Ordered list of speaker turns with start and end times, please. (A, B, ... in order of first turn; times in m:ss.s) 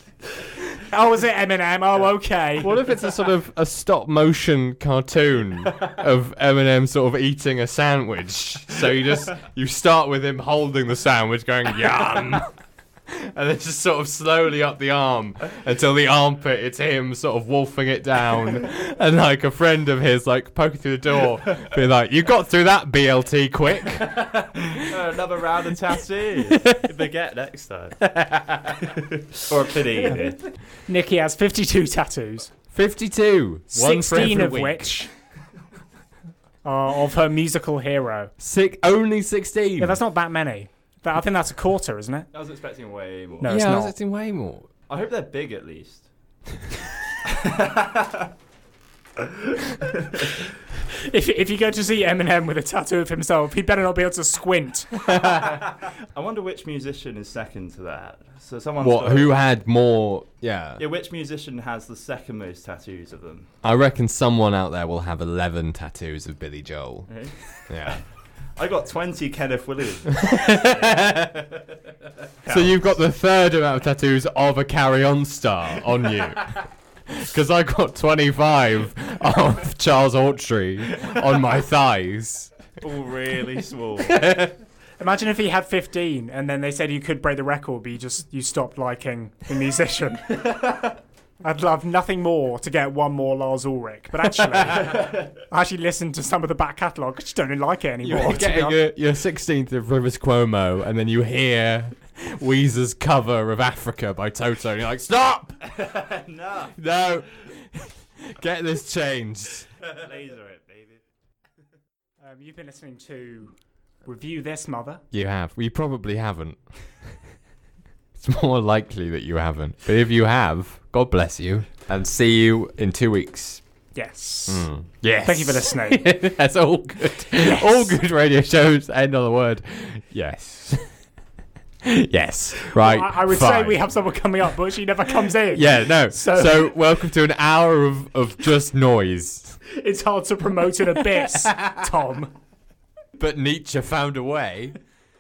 0:00.8-0:02.8 A
0:02.6-0:12.5 B
0:13.1-0:24.9 B
0:24.1-0:28.1 C
0:26.5-0:26.9 B
0:28.0-0:28.9 B
0:28.8-0:30.4 C
0:30.9-0:32.5 A
0:32.7-0:34.9 B
0:33.7-0:35.1 A
0:36.6-0:38.3 A
0:38.4-0:40.0 B
0:39.8-0:42.3 A
0:42.3-0:43.5 C
0:43.4-0:44.0 A
0:43.4-0:44.7 B
0:44.9-0:46.1 C
0:47.2-0:48.3 C
0:49.2-0:50.5 C
0:50.9-0:54.9 A
0:55.1-0:59.4 C
0:55.1-0:55.6 B
0:58.8-1:00.8 B
1:00.8-1:03.5 C
1:03.6-1:07.1 B
1:07.1-1:08.0 C
1:07.7-1:08.0 B
1:08.6-1:10.6 C
1:10.1-1:11.7 B
1:12.4-1:12.9 C
1:12.5-1:22.5 B
1:22.8-1:24.3 C
1:24.0-1:24.6 B
1:25.0-1:38.8 A
1:34.5-1:35.1 B
1:38.0-1:45.6 B
1:45.6-1:46.8 C
1:46.7-1:49.7 B
1:49.8-1:51.0 C
1:52.2-1:55.0 A
1:55.1-1:56.6 B
1:58.2-2:03.6 B
2:04.0-2:04.7 A
2:04.5-2:10.8 B
2:05.2-2:06.1 A
2:07.4-2:08.0 A
2:11.8-2:13.8 B
2:12.6-2:16.8 A
2:15.5-2:19.6 B
2:19.7-2:22.3 A
2:21.2-2:21.9 B
2:23.2-2:24.8 B